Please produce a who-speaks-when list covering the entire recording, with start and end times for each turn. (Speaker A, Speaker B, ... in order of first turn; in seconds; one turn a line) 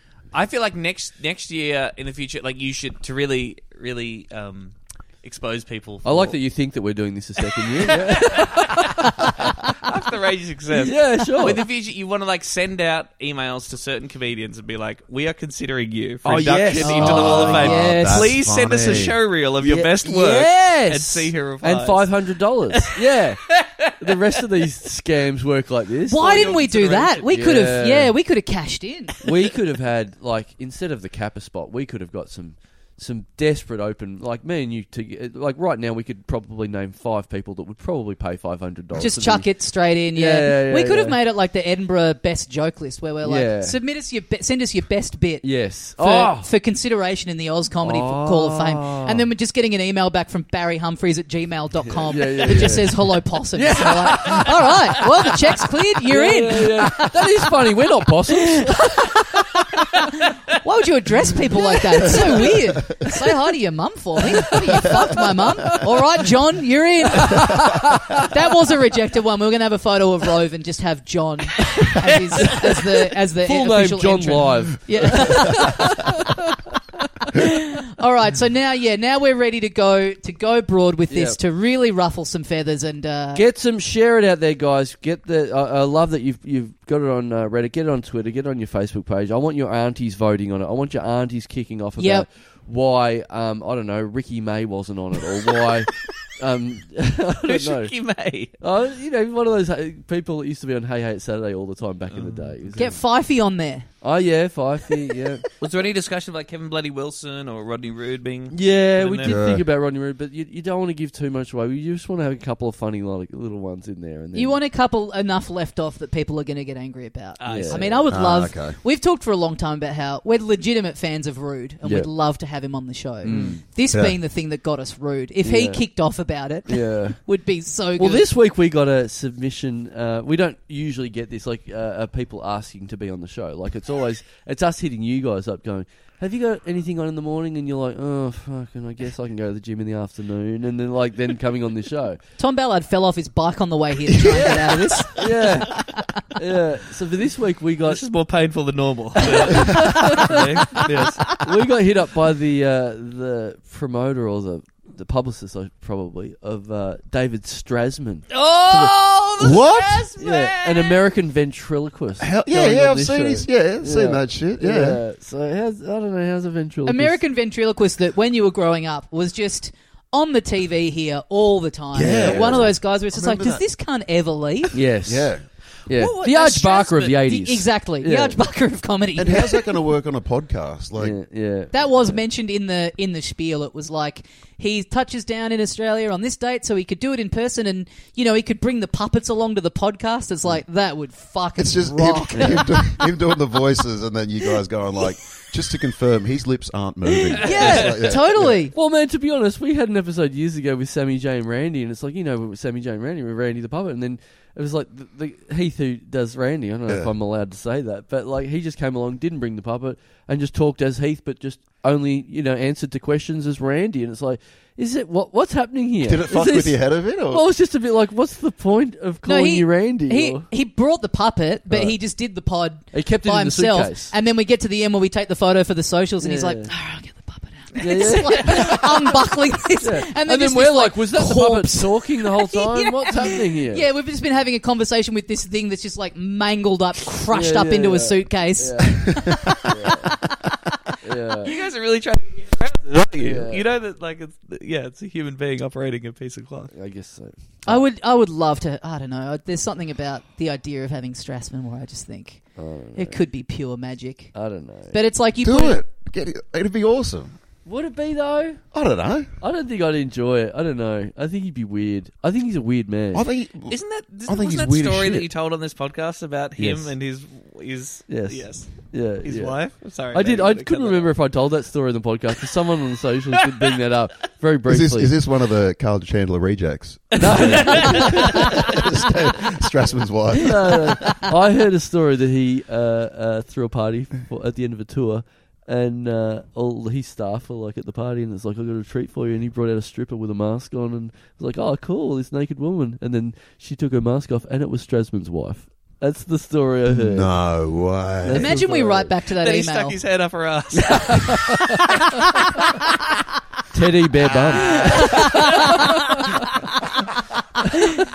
Speaker A: 0.3-6.3
Speaker B: 6.0-9.7
Speaker A: 7.5-22.1
Speaker B: 10.7-11.7
Speaker B: 16.2-18.1
Speaker C: 16.7-19.2
Speaker D: 17.6-18.3
Speaker B: 19.6-26.6
Speaker D: 26.1-29.2
Speaker A: 26.1-27.3
Speaker B: 27.2-28.1
Speaker B: 29.2-39.5
Speaker D: 39.0-57.5
Speaker B: 40.1-41.2
Speaker B: 43.2-43.8
Speaker B: 45.4-46.5
Speaker B: 47.8-49.2
Speaker B: 51.9-58.9
Speaker D: 58.3-76.2
Speaker A: 62.0-62.4
Speaker C: 62.7-63.0
Speaker B: 64.5-65.9
Speaker B: 67.1-68.4
Speaker B: 72.4-72.9
Speaker B: 73.4-77.0
Speaker D: 77.3-83.4
Speaker B: 81.1-81.4
Speaker B: 83.3-97.9
Speaker D: 92.0-92.3
Speaker A: 97.5-98.5
Speaker B: 98.6-103.0
Speaker A: 102.1-102.8
Speaker D: 102.8-103.9
Speaker B: 104.0-105.5
Speaker A: 105.6-109.4
Speaker B: 108.5-114.6
Speaker C: 109.2-109.6
Speaker D: 114.3-128.3
Speaker A: 117.4-118.1
Speaker B: 117.5-118.0
Speaker C: 118.1-118.8
Speaker B: 121.8-122.1
Speaker B: 123.2-123.6
Speaker A: 123.3-123.6
Speaker C: 123.9-124.2
Speaker B: 125.4-125.8
Speaker B: 126.7-127.2
Speaker B: 128.0-142.2
Speaker D: 142.4-146.2
Speaker B: 145.1-148.1
Speaker A: 147.8-151.4
Speaker B: 149.9-158.9
Speaker A: 158.3-161.0
Speaker C: 159.4-160.1
Speaker B: 160.2-167.2
Speaker C: 162.2-165.0
Speaker D: 166.8-174.8
Speaker C: 171.9-173.6
Speaker B: 172.0-172.7
Speaker B: 174.7-175.3
Speaker C: 175.0-175.4
Speaker B: 175.9-178.4
Speaker A: 175.9-177.1
Speaker D: 176.2-179.7
Speaker C: 179.2-181.2
Speaker B: 181.0-182.2
Speaker D: 181.7-193.1
Speaker C: 191.6-198.6
Speaker B: 192.3-192.6
Speaker D: 197.4-198.7
Speaker A: 197.4-198.0
Speaker B: 198.7-220.5
Speaker C: 206.9-207.1
Speaker C: 216.0-217.4
Speaker D: 219.2-240.4
Speaker B: 221.7-221.9
Speaker B: 222.9-224.1
Speaker B: 226.2-226.7
Speaker B: 227.8-229.1
Speaker A: 227.8-228.6
Speaker B: 229.8-233.8
Speaker B: 237.3-240.1
Speaker B: 241.0-241.5
Speaker A: 241.4-246.7
Speaker B: 243.2-243.7
Speaker B: 246.7-247.8
Speaker D: 247.7-254.3
Speaker B: 252.6-253.2
Speaker B: 254.3-255.0
Speaker D: 254.9-255.8
Speaker C: 255.4-257.3
Speaker B: 257.6-258.6
Speaker C: 258.7-259.3
Speaker B: 259.4-263.3
Speaker C: 263.1-265.3
Speaker A: 263.6-271.1
Speaker B: 266.6-266.9
Speaker B: 268.1-275.1
Speaker C: 274.7-281.2
Speaker B: 277.2-278.8
Speaker A: 277.3-278.8
Speaker B: 280.3-297.3
Speaker C: 296.9-298.5
Speaker B: 298.2-299.1
Speaker D: 298.3-300.0
Speaker A: 299.3-302.7
Speaker B: 300.8-301.7
Speaker B: 303.7-305.2
Speaker C: 304.5-304.8
Speaker A: 304.6-306.0
Speaker D: 304.9-306.9